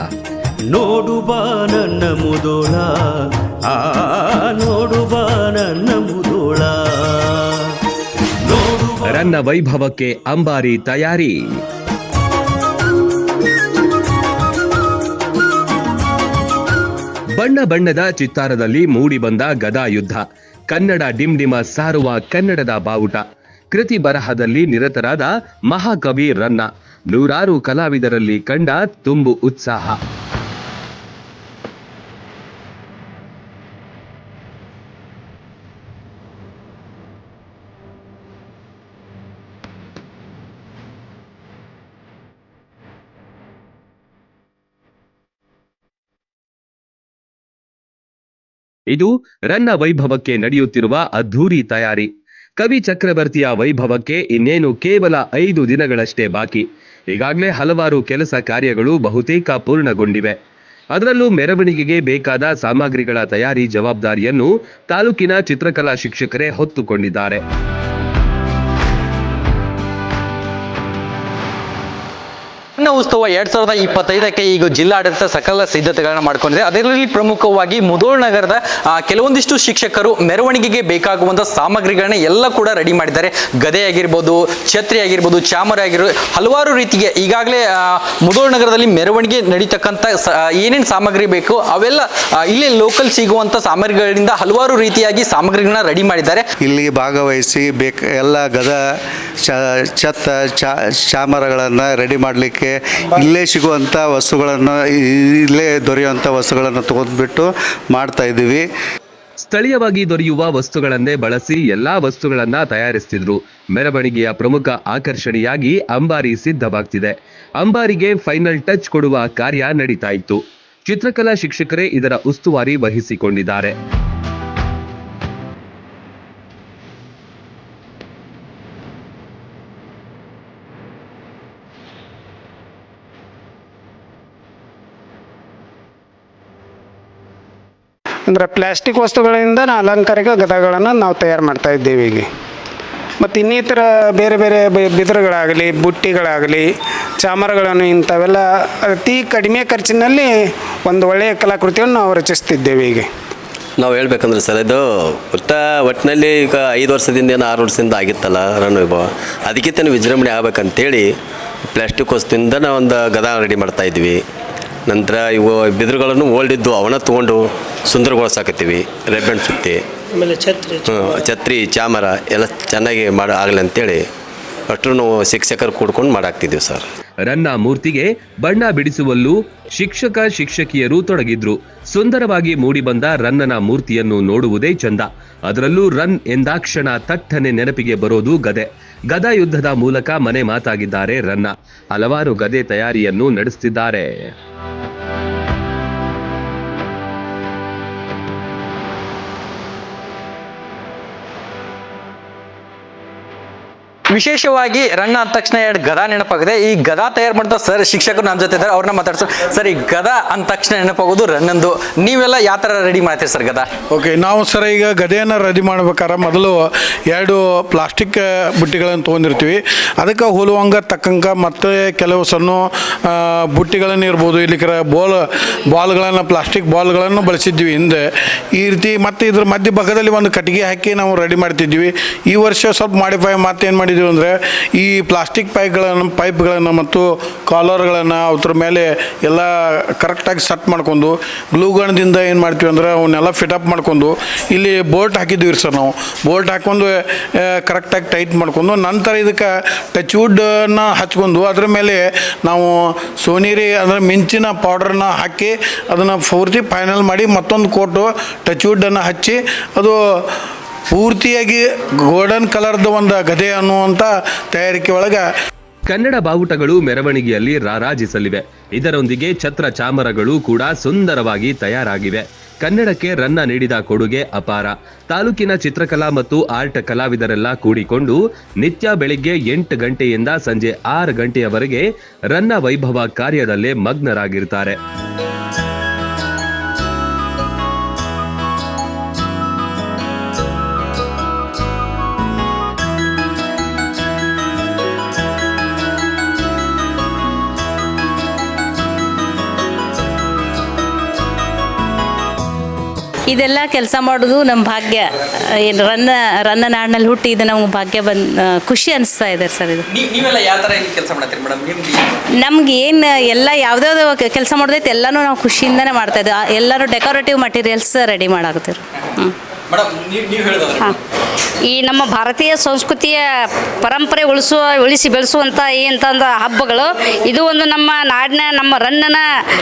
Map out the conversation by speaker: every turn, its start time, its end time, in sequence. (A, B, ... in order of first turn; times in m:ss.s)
0:00.7-0:02.9 A
0:03.8-0:07.4 A
0:08.5-0:08.9 A
0:09.0-0:11.4 B
0:17.4-0:30.0 B
0:48.9-1:00.3 B
1:00.9-1:07.4 B
1:12.8-1:36.4 C
1:36.6-1:38.8 D
1:39.4-1:48.6 D
1:49.4-2:03.7 B
2:18.3-2:22.3 E
2:23.2-2:26.7 E
2:27.2-2:30.3 E
2:30.8-2:33.1 E
2:33.8-2:41.0 F
2:41.7-2:44.2 F
2:44.9-2:49.8 F
2:50.2-2:50.7 A
2:50.8-2:54.0 F
2:54.7-2:56.8 F
2:57.3-3:14.1 B
3:24.1-3:33.7 C
3:33.9-4:20.0 G
4:20.9-4:25.2 G
4:25.9-4:44.8 B
5:03.3-5:09.8 H
5:09.9-5:12.2 C
5:12.4-5:19.3 H
5:19.7-5:20.9 C
5:21.7-5:29.2 I